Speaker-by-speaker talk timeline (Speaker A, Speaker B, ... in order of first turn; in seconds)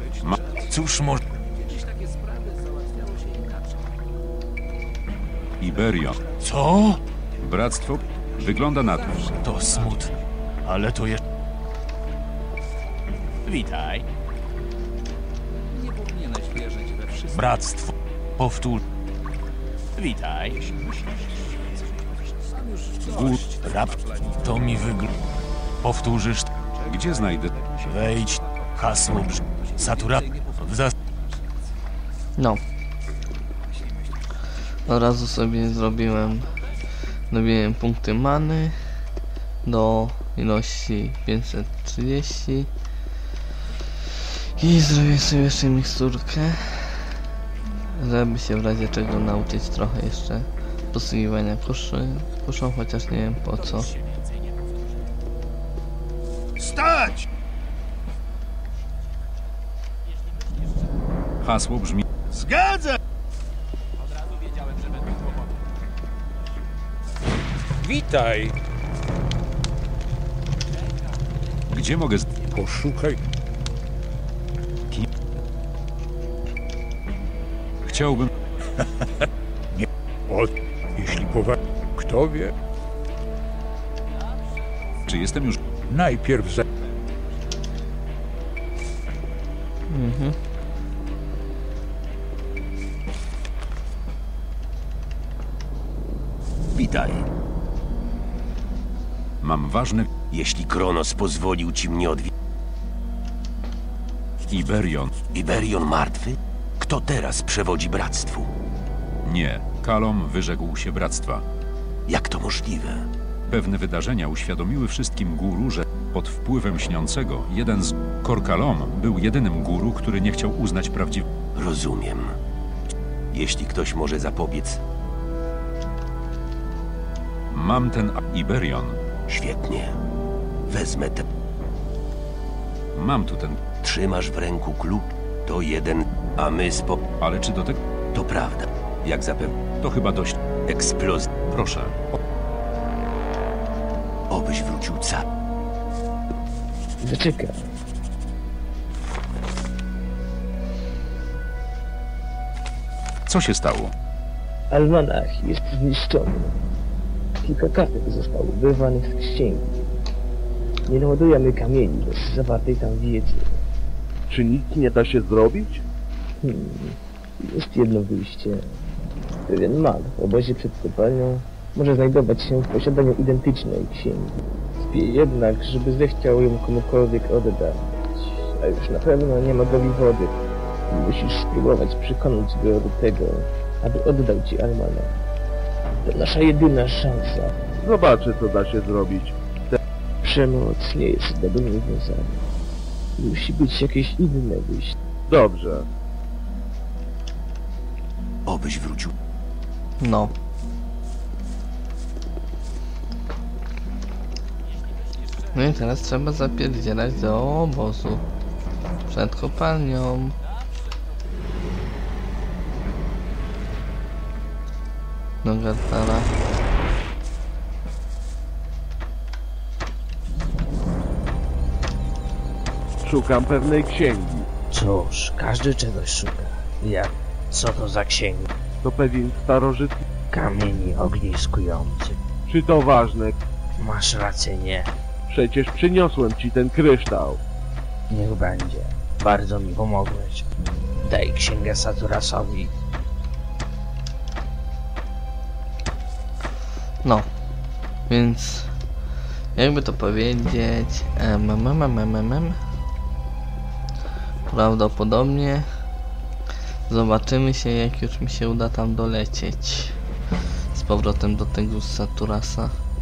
Speaker A: 0.7-1.2, 6.4-7.0, 9.3-11.2, 13.5-14.1, 17.3-18.8, 20.0-20.7, 23.6-25.1, 25.8-26.5, 27.8-30.9, 56.6-57.1, 62.4-62.8, 68.0-68.3
Speaker B: 5.6-6.2, 7.4-9.4, 23.1-23.4, 26.9-27.6, 61.4-62.0, 71.7-72.5, 77.8-78.3, 85.1-85.6, 99.4-100.1, 104.5-105.1, 109.2-111.4, 113.5-121.2, 127.5-129.0, 133.0-133.6, 137.2-137.8, 139.7-140.4, 141.5-142.0, 153.3-153.9
Speaker C: 34.9-36.5, 37.3-38.8, 39.6-42.7, 44.3-47.2, 47.9-53.9, 89.9-90.4, 200.0-200.3, 205.5-208.2, 209.1-210.4, 215.4-216.3, 248.1-248.7, 249.6-252.6, 254.5-255.7, 256.9-260.0, 260.7-262.8
Speaker D: 72.5-73.2, 79.8-82.5, 85.9-86.6
Speaker E: 96.7-97.3, 100.3-102.3, 105.3-108.5, 112.1-113.0, 121.5-122.3, 123.3-124.8, 129.3-129.9, 130.7-131.2, 133.8-137.0, 138.1-139.7, 140.7-141.3, 144.3-145.2, 198.5-199.1
Speaker F: 147.0-147.6, 154.7-156.6, 157.4-159.7, 160.9-163.5, 166.4-168.6, 169.5-180.3, 180.9-185.1, 186.1-187.5, 190.2-192.4, 193.2-194.9
Speaker G: 164.3-165.8, 187.8-189.8, 195.3-195.8, 223.0-224.5, 228.8-230.1, 232.5-233.4, 235.3-237.4
Speaker H: 224.7-228.5, 230.3-232.2, 233.8-234.9, 238.1-240.5, 241.0-242.7